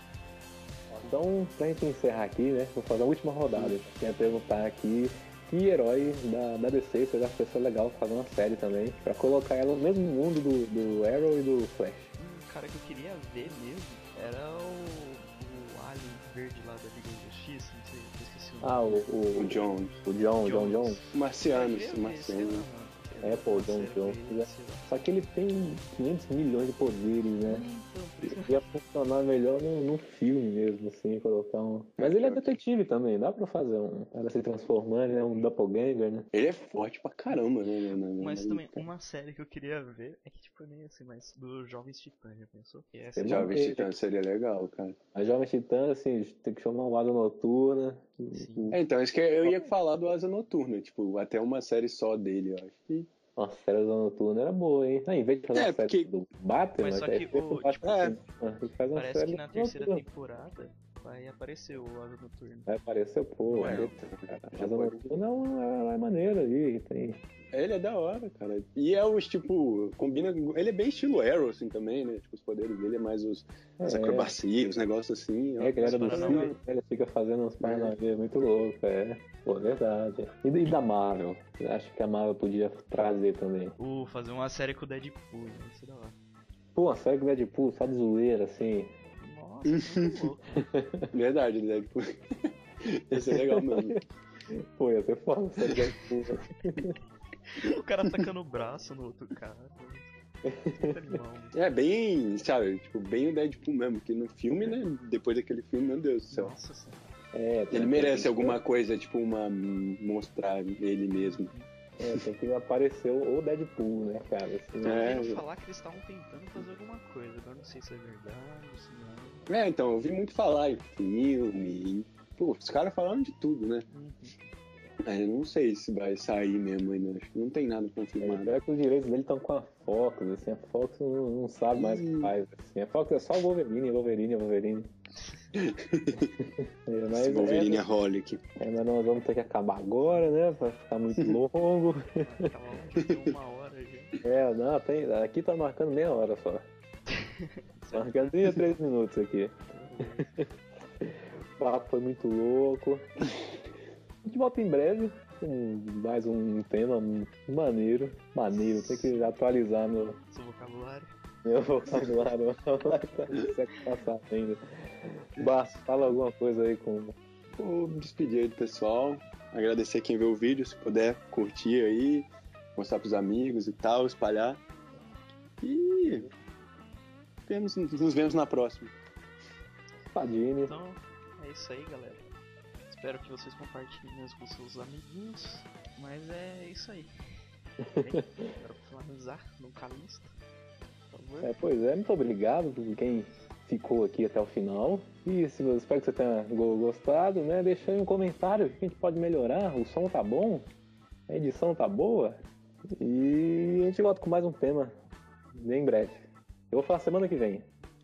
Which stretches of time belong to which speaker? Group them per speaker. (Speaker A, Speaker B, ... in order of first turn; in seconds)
Speaker A: 0.9-12.1, 18.6-21.0, 23.2-27.7, 28.3-36.3, 43.2-43.9, 45.1-48.8, 53.4-60.0, 62.7-67.2, 73.8-74.4, 75.6-83.8, 86.7-88.9, 90.6-91.1, 93.1-94.0, 94.5-97.0, 100.4-101.2, 107.3-108.6, 112.0-115.1, 128.2-134.9, 136.4-137.8, 138.6-142.5, 144.2-146.7, 147.9-149.6, 150.2-150.5, 151.0-153.1, 154.2-160.2, 161.4-167.1, 180.1-180.8, 187.8-188.5, 191.4-200.7, 201.3-202.4, 203.0-204.9, 205.5-207.7
Speaker B: 12.2-19.1, 20.4-24.9, 27.5-28.8, 38.2-43.6, 48.3-48.7, 56.8-58.1, 58.9-62.7, 75.8-76.5, 83.8-86.2, 89.2-90.7, 97.5-100.1, 100.7-101.5, 106.3-107.0, 111.2-111.7, 114.8-119.5, 123.9-124.3, 135.2-135.6, 140.1-140.4, 142.0-144.2, 147.1-148.6, 149.7-150.3, 158.5-159.2, 160.3-161.1, 180.7-182.3, 182.9-187.1, 187.9-190.3, 191.1-191.6
Speaker C: 19.3-20.0, 21.1-22.7, 32.0-32.6, 36.3-38.9, 43.3-45.0, 48.7-53.1, 55.5-56.1, 57.8-58.1, 63.5-65.2, 67.5-76.6, 77.6-77.9, 89.7-90.2, 91.1-92.2, 92.8-94.0, 101.5-106.5, 107.7-111.5, 114.8-115.4, 119.5-123.8, 125.0-128.6, 131.7-132.3, 135.5-136.3, 137.1-138.4, 143.0-143.3, 167.6-174.6, 175.6-176.3, 177.5-178.9